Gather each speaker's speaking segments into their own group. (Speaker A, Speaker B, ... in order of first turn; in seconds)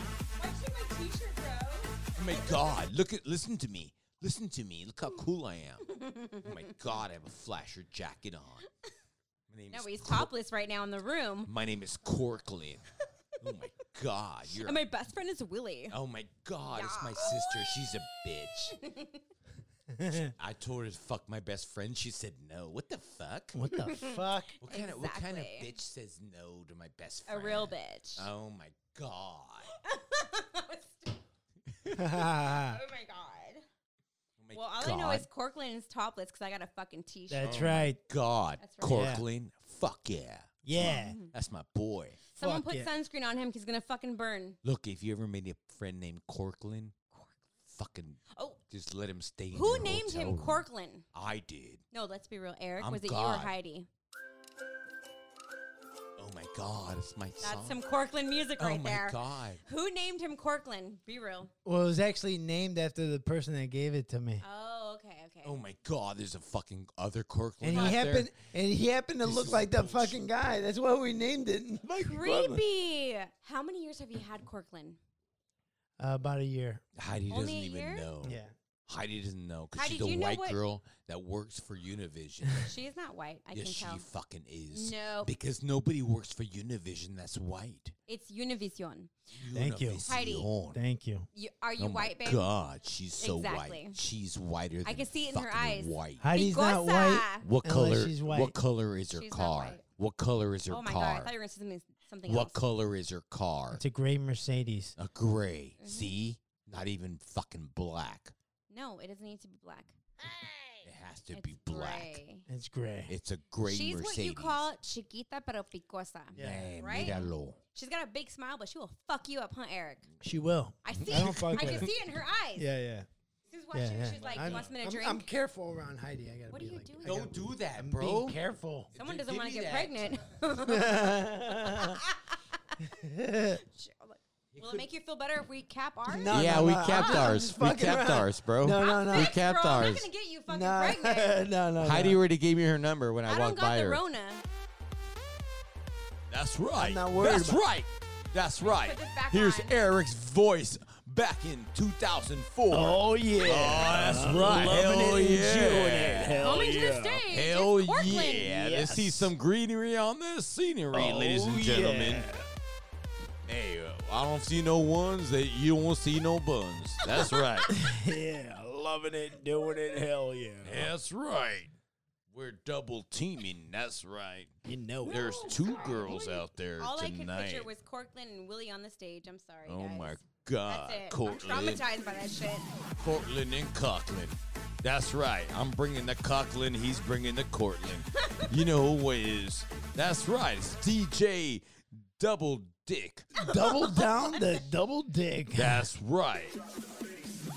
Speaker A: 0.3-2.0, 5.8-6.7, 9.7-11.5, 14.5-16.0, 16.7-18.0, 18.7-19.2, 23.7-25.7, 27.3-28.3, 29.7-31.2, 32.3-33.6, 34.5-37.5, 38.6-39.1, 40.8-41.3, 42.3-44.6, 47.1-47.4, 48.3-48.6, 49.5-51.0, 51.9-53.9, 57.4-61.5, 64.4-65.6, 67.7-68.0, 72.0-75.0, 77.3-78.1, 79.7-80.6, 82.6-84.0, 84.7-85.3, 88.1-89.1, 90.0-90.5, 91.3-92.5, 93.2-94.0, 94.8-97.5, 99.1-99.8, 100.7-102.5, 105.8-106.1, 108.7-109.9, 111.3-112.5, 113.6-120.0, 120.8-122.7, 123.5-125.3, 126.5-127.2, 128.9-132.9, 133.5-137.4, 138.7-141.4, 143.2-144.4, 148.6-149.8, 156.4-158.8, 175.1-182.7, 188.1-188.5, 193.4-194.6
Speaker B: 2.2-8.7, 9.5-10.3, 11.5-12.8, 13.4-14.8, 15.9-18.8, 20.2-23.6, 24.6-29.7, 31.8-32.0, 34.4-35.2, 37.4-42.2, 44.6-47.0, 47.6-51.8, 52.8-53.5, 56.2-57.8, 58.6-59.6, 65.4-68.3, 69.2-70.2, 76.9-82.7, 83.5-87.9, 89.3-90.8, 91.8-96.3, 97.4-101.3, 102.3-103.8, 105.0-108.3, 110.8-112.2, 113.1-114.6, 116.3-117.6, 121.0-121.9, 124.1-124.7, 127.0-128.4, 128.9-130.1, 134.5-134.8, 136.3-140.1, 141.8-144.0, 146.3-156.6, 157.3-162.3, 163.5-167.8, 170.6-171.7, 172.3-174.5, 175.0-177.7, 179.7-181.8, 183.0-191.6, 192.2-193.2, 195.5-196.6
Speaker C: 19.9-20.3, 23.5-24.6, 31.9-32.8, 37.3-38.0, 38.9-39.2, 40.6-41.2, 42.4-42.9, 61.6-64.4, 67.6-72.6, 76.0-76.8, 78.2-78.5, 89.5-90.1, 90.7-91.3, 96.2-98.5, 103.7-104.9, 112.5-113.1, 116.3-117.1, 120.2-121.9, 122.5-123.1, 123.7-128.9, 130.6-132.0, 132.8-133.6, 136.1-139.3, 140.5-142.2, 146.8-147.6, 152.7-157.2, 158.6-159.3, 160.9-162.4, 167.7-170.9, 174.6-175.5, 193.3-195.9